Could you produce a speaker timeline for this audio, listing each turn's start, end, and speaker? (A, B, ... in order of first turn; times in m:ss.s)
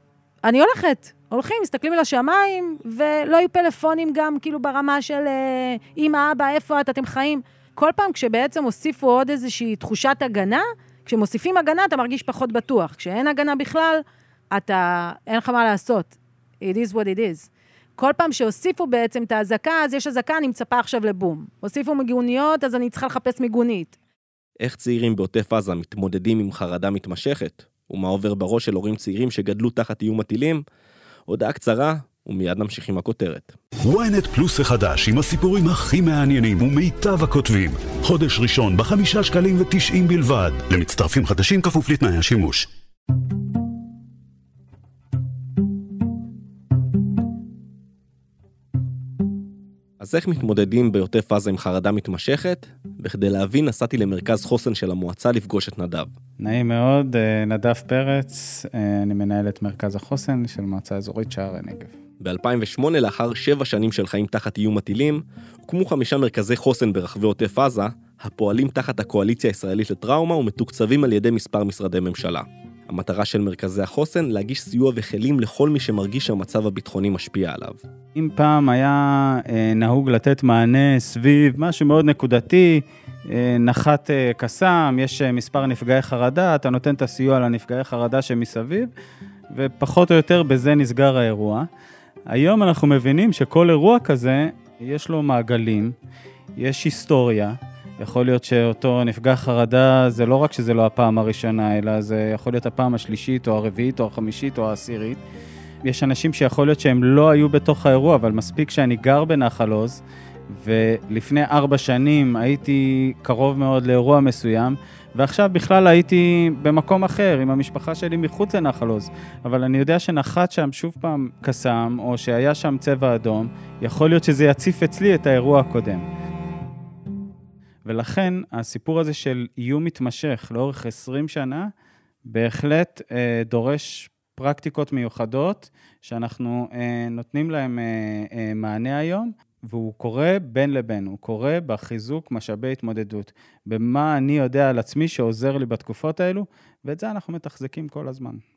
0:00.4-0:23.9 A
0:24.6-0:30.6 B
0:31.3-0:33.5 B
0:33.8-0:42.7 C
0:50.0-0:56.1 B
0:56.4-1:01.9 D
1:02.2-1:17.8 B
1:18.2-1:28.9 D
1:29.5-1:31.7 D
1:32.3-1:35.9 D
1:36.6-1:45.2 D
1:45.8-2:06.0 D
2:07.8-2:11.7 D
2:12.3-2:28.4 D